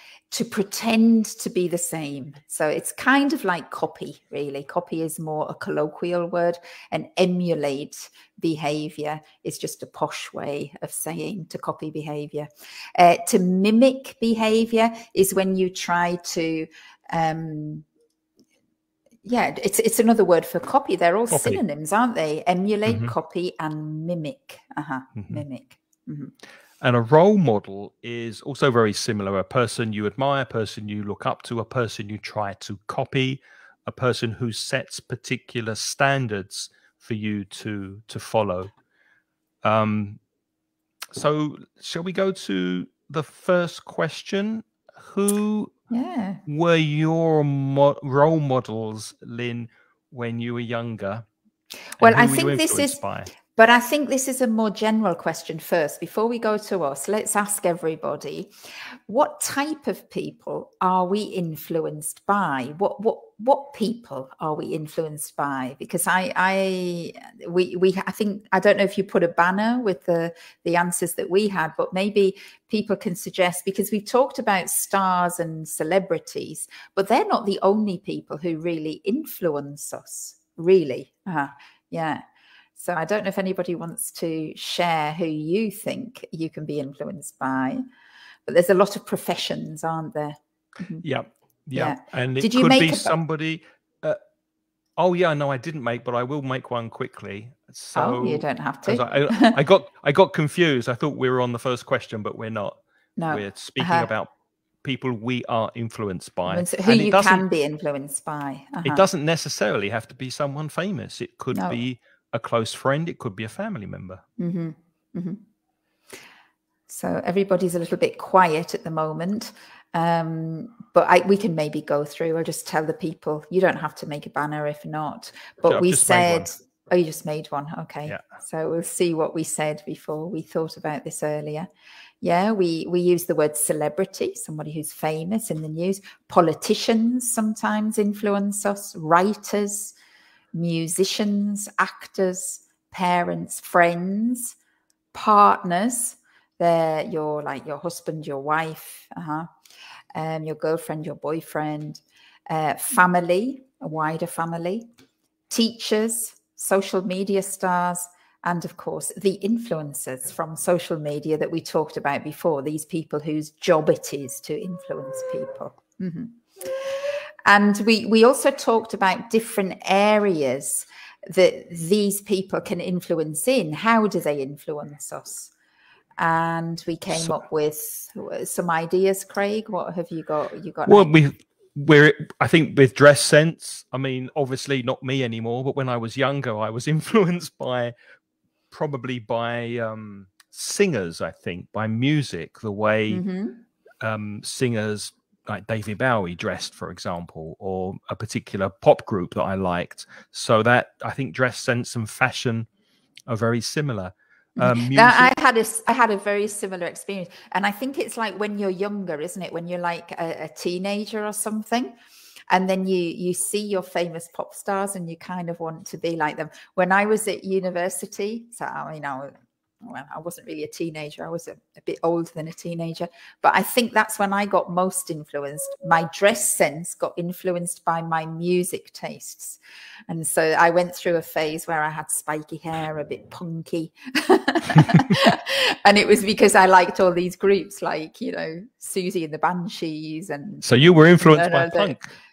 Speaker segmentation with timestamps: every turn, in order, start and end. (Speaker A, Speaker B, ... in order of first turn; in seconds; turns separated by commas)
Speaker A: 0.3-17.9, Speaker A: 19.2-26.3, Speaker B: 21.3-21.6, Speaker B: 22.9-23.1, Speaker B: 25.2-25.4, Speaker B: 26.8-38.7, Speaker B: 39.6-40.2, Speaker B: 41.1-45.7, Speaker A: 45.9-46.4, Speaker B: 46.5-51.3, Speaker B: 52.0-53.3, Speaker A: 52.0-58.5, Speaker A: 59.1-82.2, Speaker A: 82.8-87.8, Speaker A: 88.5-91.0, Speaker B: 91.0-94.2, Speaker A: 91.8-93.2, Speaker B: 95.0-104.3, Speaker A: 97.9-99.6, Speaker A: 103.2-104.1, Speaker B: 104.8-107.5, Speaker A: 106.5-109.0, Speaker B: 108.8-114.2, Speaker A: 111.5-111.8, Speaker A: 114.4-115.4, Speaker A: 116.9-131.7, Speaker B: 125.7-126.5, Speaker A: 132.2-140.0, Speaker A: 140.5-144.6, Speaker A: 145.1-149.5, Speaker A: 150.2-154.9, Speaker A: 155.5-175.5, Speaker A: 176.2-181.2, Speaker B: 177.1-177.4, Speaker B: 180.9-187.9, Speaker B: 188.7-193.2, Speaker A: 193.1-193.6, Speaker B: 194.0-202.7, Speaker B: 203.3-205.3, Speaker A: 204.6-212.0, Speaker A: 212.5-219.3, Speaker A: 219.8-241.9, Speaker B: 240.6-242.1